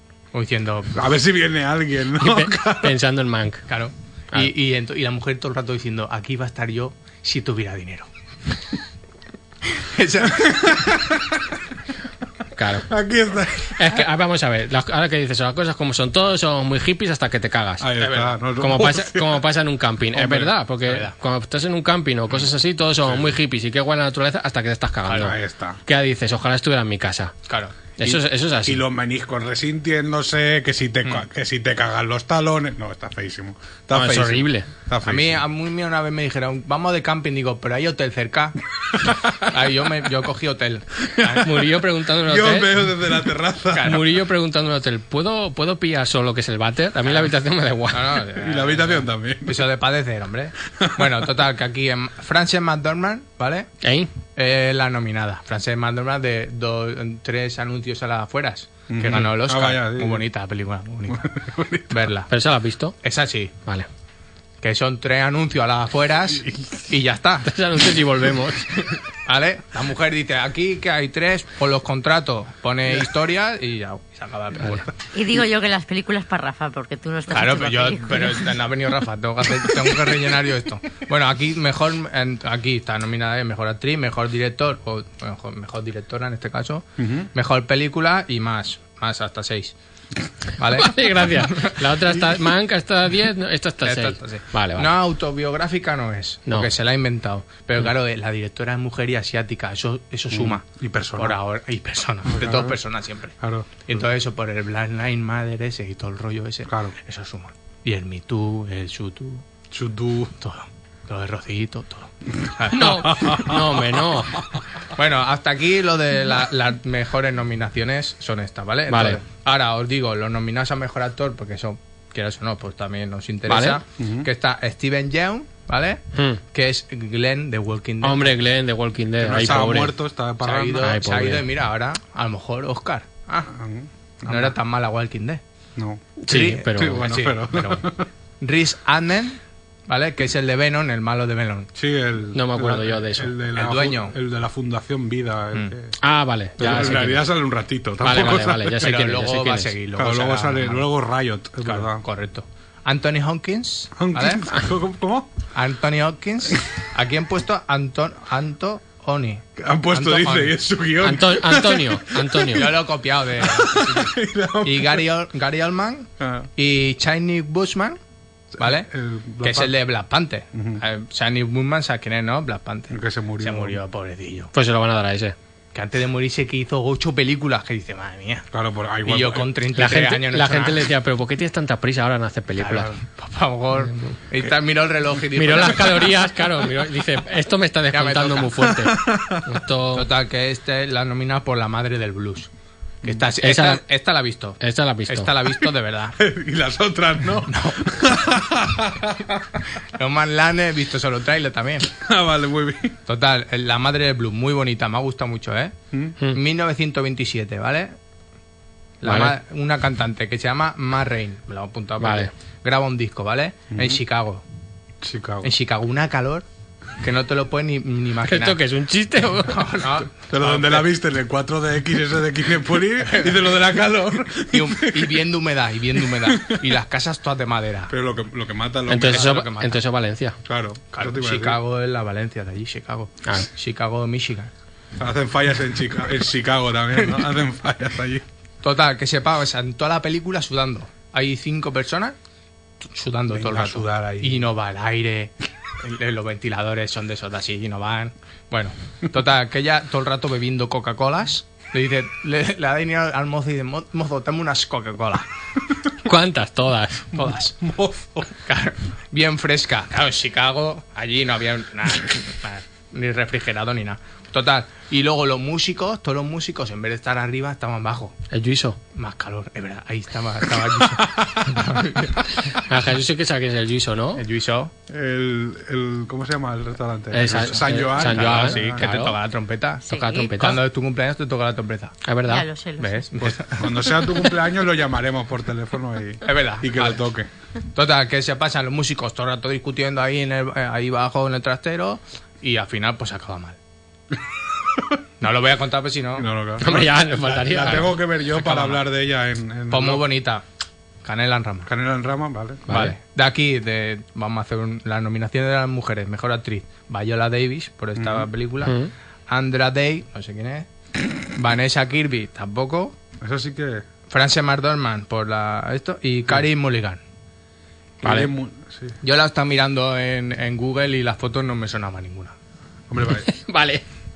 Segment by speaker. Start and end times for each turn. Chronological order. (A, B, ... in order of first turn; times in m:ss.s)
0:00.3-0:01.0 A
0:00.9-0:03.0 B
0:02.2-0:03.6 C
0:03.7-0:08.1 A
0:09.7-0:11.0 A
0:10.4-0:11.2 B
0:12.6-0:12.9 C
0:12.8-0:14.0 B
0:13.7-0:17.9 C
0:17.8-0:19.5 B
0:18.0-0:18.4 A
0:18.5-0:27.4 C
0:20.2-0:20.5 B
0:20.8-0:21.1 A
0:25.1-0:25.3 A
0:25.2-0:25.8 B
0:27.5-0:28.2 A
0:28.0-0:28.8 C
0:28.7-0:35.4 B
0:33.9-0:34.7 C
0:35.0-0:38.6 A
0:39.3-0:41.6 A
0:41.2-0:41.4 B
0:41.4-0:42.9 C
0:42.2-0:44.0 B
0:43.7-0:44.1 A
0:43.8-0:48.2 C
0:47.9-0:53.7 A
0:48.4-0:49.7 B
0:50.8-0:51.3 B
0:53.8-0:54.1 C
0:54.4-1:01.3 A
0:58.9-1:00.3 B
1:01.1-1:02.1 B
1:01.9-1:02.3 A
1:02.3-1:03.0 C
1:03.0-1:03.5 A
1:04.6-1:07.5 A
1:06.4-1:06.8 B
1:07.5-1:08.9 C
1:09.2-1:14.9 A
1:15.1-1:18.5 D
1:17.3-1:29.7 A
1:27.0-1:27.3 B
1:30.6-1:32.1 A
1:30.8-1:34.9 C
1:33.8-1:40.6 A
1:40.3-1:41.4 B
1:41.2-1:43.4 A
1:42.3-1:42.8 B
1:43.4-1:43.8 B
1:43.9-1:49.4 A
1:46.7-1:47.0 B
1:49.7-1:50.4 B
1:50.4-1:53.5 A
1:52.7-1:54.4 C
1:52.8-1:54.6 B
1:54.9-2:08.4 A
1:58.9-1:59.2 C
2:03.5-2:03.8 C
2:04.0-2:04.3 B
2:06.1-2:06.4 C
2:08.0-2:10.0 C
2:09.2-2:11.0 B
2:10.4-2:13.5 A
2:10.8-2:11.4 C
2:13.5-2:14.6 B
2:14.3-2:15.4 A
2:15.8-2:16.2 B
2:16.2-2:17.1 C
2:16.3-2:17.9 A
2:16.7-2:18.1 B
2:18.4-2:21.7 A
2:21.8-2:26.0 B
2:22.4-2:23.3 C
2:23.5-2:24.2 A
2:26.0-2:27.3 C
2:26.6-2:29.1 B
2:28.0-2:29.7 C
2:28.8-2:30.9 A
2:30.0-2:32.0 B
2:31.6-2:34.5 A
2:34.0-2:35.3 B
2:35.5-2:40.6 A
2:39.6-2:42.8 B
2:41.0-2:42.8 C
2:42.5-2:48.0 A
2:43.4-2:45.1 B
2:46.2-2:46.5 B
2:48.5-2:49.7 B
2:48.6-2:48.9 A
2:49.4-2:54.5 A
2:50.5-2:50.8 B
2:52.9-2:53.8 B
2:54.5-2:55.4 C
2:55.7-2:58.5 A
2:58.5-2:59.5 B
2:59.0-3:00.8 A
2:59.8-3:02.9 C
3:02.6-3:06.1 A
3:05.4-3:10.1 C
3:07.9-3:08.7 A
3:08.8-3:09.6 B
3:10.0-3:12.5 A
3:13.0-3:16.2 A
3:13.4-3:13.8 C
3:14.6-3:15.3 C
3:16.2-3:19.6 B
3:17.5-3:18.0 A
3:20.0-3:21.9 A
3:22.0-3:23.0 B
3:23.1-3:25.8 A
3:26.3-3:28.0 A
3:29.0-3:34.4 A
3:29.0-3:29.4 C
3:32.0-3:32.3 C
3:33.7-3:34.0 B
3:35.0-3:35.5 B
3:35.4-3:36.5 A
3:37.0-3:38.6 A
3:38.3-3:39.8 C
3:39.5-3:40.9 A
3:40.3-3:45.2 B
3:43.1-3:43.5 A
3:44.5-3:47.9 A
3:46.0-3:46.8 B
3:47.9-3:49.5 B
3:48.9-3:50.4 C
3:48.9-3:49.8 A
3:50.4-3:51.6 B
3:50.9-3:54.5 A
3:55.0-3:58.2 B
3:57.0-3:57.3 A
3:58.6-4:02.2 A
4:02.8-4:15.3 A
4:03.3-4:04.5 B
4:16.0-4:17.2 C
4:17.1-4:17.6 A
4:17.6-4:18.3 B
4:18.4-4:28.2 A
4:28.3-4:28.8 C
4:28.9-4:32.3 A
4:30.8-4:31.8 B
4:32.6-4:34.2 C
4:34.2-4:34.7 A
4:34.9-4:38.8 B
4:37.1-4:39.2 C
4:38.0-4:39.8 A
4:39.9-4:40.4 D
4:39.9-4:40.6 C
4:40.4-4:42.0 A
4:42.0-4:42.5 C
4:42.3-4:43.1 D
4:42.8-4:44.2 A
4:43.2-4:47.3 B
4:46.2-4:47.0 A
4:47.7-4:53.6 A
4:55.2-4:56.3 A
4:56.2-5:00.1 B
4:56.6-4:58.0 C
4:57.7-4:58.8 A
4:59.7-5:00.4 A
5:01.0-5:01.7 A
5:01.7-5:02.7 B
5:02.7-5:03.0 C
5:02.7-5:08.8 A
5:08.0-5:08.3 B
5:08.6-5:08.9 C
5:09.3-5:10.7 A
5:11.3-5:13.0 A
5:13.2-5:13.8 B
5:14.1-5:17.0 A
5:18.0-5:19.0 B
5:18.0-5:18.3 C
5:19.0-5:22.4 A
5:22.9-5:23.3 B
5:23.3-5:23.8 C